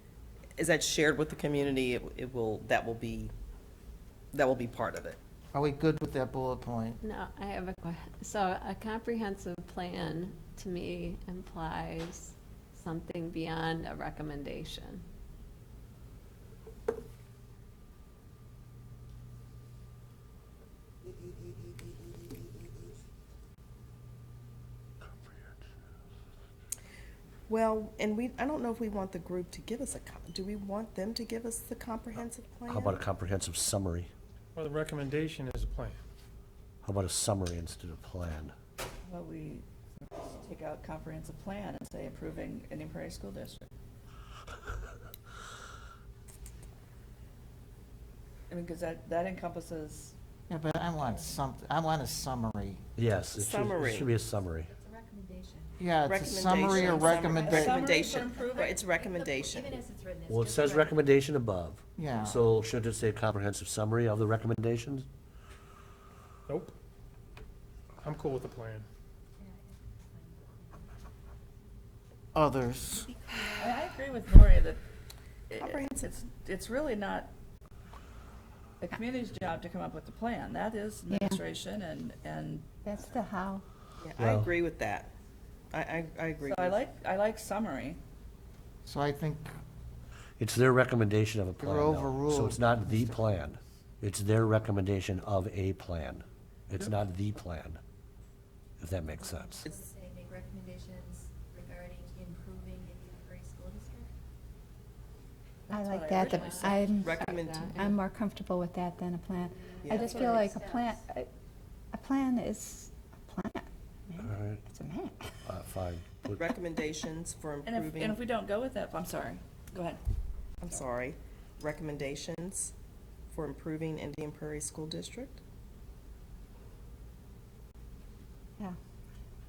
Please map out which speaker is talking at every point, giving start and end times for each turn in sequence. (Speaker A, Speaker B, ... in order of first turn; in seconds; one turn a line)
Speaker A: 0.6-3.3
Speaker A: 4.3-5.2
Speaker B: 5.5-7.0
Speaker C: 7.0-15.0
Speaker A: 27.5-33.0
Speaker D: 32.7-34.1
Speaker E: 34.5-36.0
Speaker D: 36.8-38.5
Speaker F: 39.0-43.7
Speaker F: 48.5-50.1
Speaker B: 50.5-52.8
Speaker D: 53.0-54.7
Speaker A: 53.4-54.1
Speaker G: 54.7-55.9
Speaker B: 55.8-57.9
Speaker A: 56.1-59.8
Speaker G: 56.5-60.9
Speaker F: 56.9-58.7
Speaker D: 60.3-65.0
Speaker B: 62.0-62.4
Speaker E: 66.5-66.7
Speaker E: 68.0-68.9
Speaker G: 69.4-70.8
Speaker B: 72.3-73.1
Speaker F: 73.6-74.8
Speaker F: 75.5-77.3
Speaker A: 75.6-76.1
Speaker F: 78.8-82.7
Speaker H: 81.1-81.4
Speaker H: 82.8-83.6
Speaker A: 84.0-85.1
Speaker D: 84.2-84.5
Speaker A: 85.7-86.8
Speaker F: 86.4-88.0
Speaker B: 88.8-89.5
Speaker D: 90.4-97.8
Speaker B: 91.6-93.2
Speaker D: 98.8-99.7
Speaker G: 99.7-104.1
Speaker F: 105.7-106.8
Speaker H: 105.7-107.2
Speaker A: 106.4-107.9
Speaker C: 106.4-108.0
Speaker H: 107.8-111.3
Speaker A: 109.8-110.4
Speaker G: 109.8-111.0
Speaker F: 109.9-110.4
Speaker H: 111.9-115.3
Speaker D: 114.2-114.6
Speaker D: 115.4-116.4
Speaker A: 116.4-118.2
Speaker F: 117.6-120.0
Speaker A: 120.6-122.7
Speaker A: 123.3-125.4